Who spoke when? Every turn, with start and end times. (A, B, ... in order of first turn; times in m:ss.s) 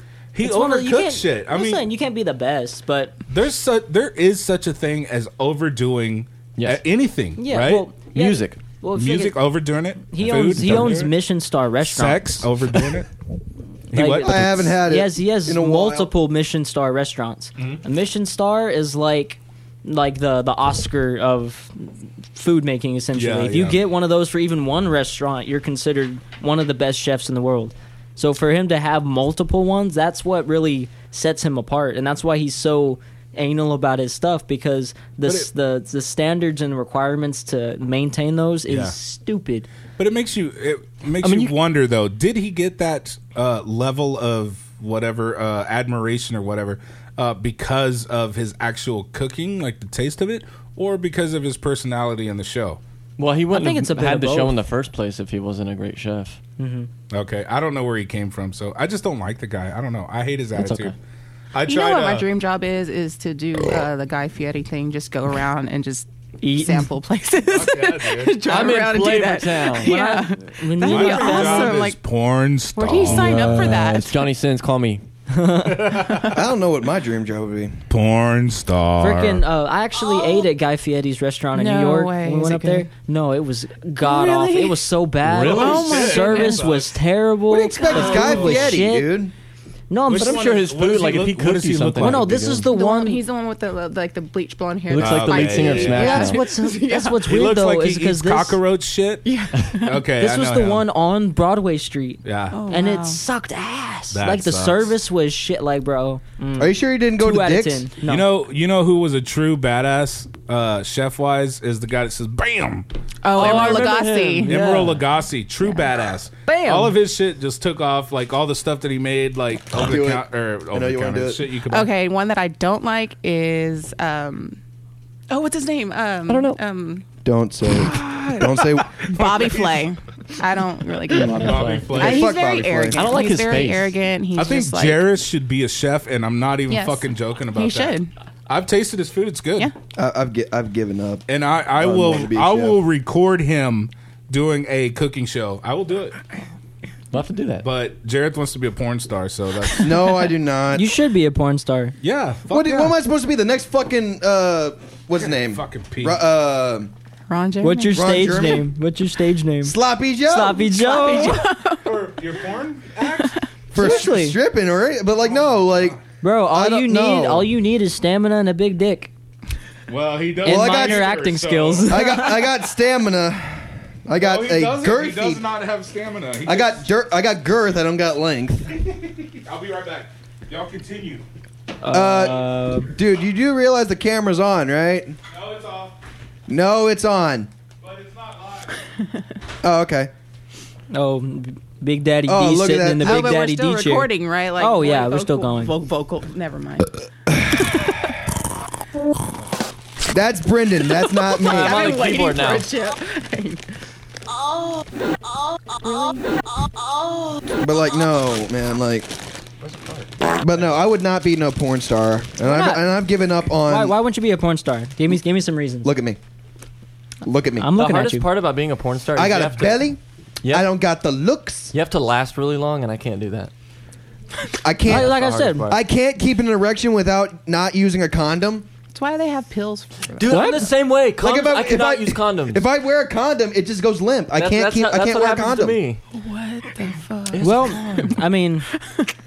0:00.3-0:01.8 A
0:00.4-0:03.2 B
0:03.3-0:07.9 A
0:06.6-0:06.8 C
0:07.4-0:09.4 B
0:08.1-0:08.6 C
0:09.0-0:11.1 A
0:10.1-0:12.5 B
0:11.8-0:13.1 A
0:13.9-0:14.8 A
0:13.9-0:39.7 B
0:14.2-0:16.1 D
0:23.1-0:23.8 A
0:38.7-0:38.9 A
0:40.0-0:52.8 A
0:41.2-0:41.5 B
0:53.2-0:56.4 C
0:53.5-0:54.6 B
0:56.6-0:56.9 B
0:57.1-1:01.0 A
1:00.6-1:00.9 C
1:01.5-1:02.3 A
1:01.6-1:12.0 E
1:06.4-1:06.9 B
1:07.5-1:08.8 A
1:08.5-1:09.9 C
1:09.8-1:11.8 B
1:10.8-1:13.7 A
1:12.8-1:14.2 E
1:13.0-1:15.0 C
1:15.3-1:16.3 B
1:15.7-1:16.2 A
1:16.3-1:17.8 D
1:17.9-1:19.4 A
1:19.0-1:29.2 B
1:21.5-1:22.9 E
1:24.0-1:24.7 E
1:25.2-1:26.0 C
1:25.4-1:27.0 A
1:25.6-1:26.6 E
1:27.5-1:29.3 D
1:27.9-1:28.8 A
1:28.0-1:28.3 E
1:29.9-1:30.5 B
1:30.1-1:32.4 A
1:30.1-1:32.7 C
1:32.0-1:33.2 B
1:32.7-1:37.2 E
1:34.9-1:36.4 C
1:35.0-1:36.2 A
1:35.9-1:38.6 B
1:37.2-1:40.8 A
1:39.2-1:40.0 E
1:40.2-1:48.3 B
1:42.2-1:42.6 A
1:42.5-1:43.2 E
1:44.1-1:45.0 A
1:46.6-1:47.9 D
1:48.0-1:52.9 A
1:53.2-1:54.5 E
1:53.3-1:55.0 C
1:53.4-1:53.9 B
1:53.5-1:53.9 A
1:54.4-2:01.9 A
1:56.5-1:56.9 B
1:59.7-2:01.4 D
2:01.7-2:04.6 E
2:05.3-2:07.0 E
2:06.3-2:06.6 C
2:07.2-2:09.1 D
2:07.9-2:15.0 E
2:09.1-2:09.9 A
2:11.1-2:12.2 C
2:11.2-2:12.3 A
2:11.9-2:13.0 D
2:12.9-2:14.0 C
2:14.4-2:19.7 A
2:16.7-2:18.1 E
2:20.0-2:21.2 D
2:21.3-2:26.2 A
2:21.8-2:22.8 D
2:27.1-2:27.7 C
2:27.6-2:30.2 A
2:29.8-2:30.9 D
2:30.7-2:32.0 B
2:32.0-2:33.0 A
2:32.5-2:36.9 D
2:35.4-2:36.2 A
2:37.3-2:38.4 E
2:37.6-2:41.4 B
2:37.9-2:38.7 D
2:39.6-2:40.7 D
2:40.6-2:41.9 E
2:41.8-2:43.4 A
2:43.7-2:47.5 D
2:43.7-2:44.4 B
2:46.2-2:49.1 B
2:49.9-2:52.0 A
2:50.4-2:51.1 D
2:50.4-2:52.5 B
2:51.9-2:55.4 D
2:54.2-2:56.8 A
2:56.4-2:58.8 D
2:58.8-3:01.2 A
3:01.8-3:02.9 B
3:01.9-3:05.2 D
3:05.3-3:06.0 A
3:06.5-3:07.5 D
3:07.8-3:08.8 A
3:09.6-3:10.1 D
3:10.9-3:15.7 B
3:12.3-3:13.2 D
3:13.0-3:17.0 E
3:17.3-3:17.7 D
3:17.6-3:18.0 E
3:20.1-3:22.0 D
3:21.0-3:23.6 E
3:21.4-3:22.7 C
3:25.8-3:26.2 E
3:27.6-3:29.1 D
3:29.6-3:30.1 C
3:30.4-3:34.0 D
3:32.4-3:32.9 B
3:33.6-3:35.9 B
3:35.8-3:36.2 D
3:37.2-3:37.7 D
3:37.6-3:38.3 B
3:37.8-3:39.9 C
3:39.2-3:41.7 D
3:41.7-3:43.5 C
3:44.6-3:48.7 D
3:44.8-3:45.8 C
3:44.8-3:45.7 B
3:48.9-3:50.6 E
3:50.2-3:52.6 C
3:50.3-3:50.7 B
3:51.2-3:55.8 D
3:54.4-3:56.0 C
3:56.1-3:58.2 E
3:57.3-3:58.1 C
3:57.4-3:58.7 B
3:58.8-3:59.1 E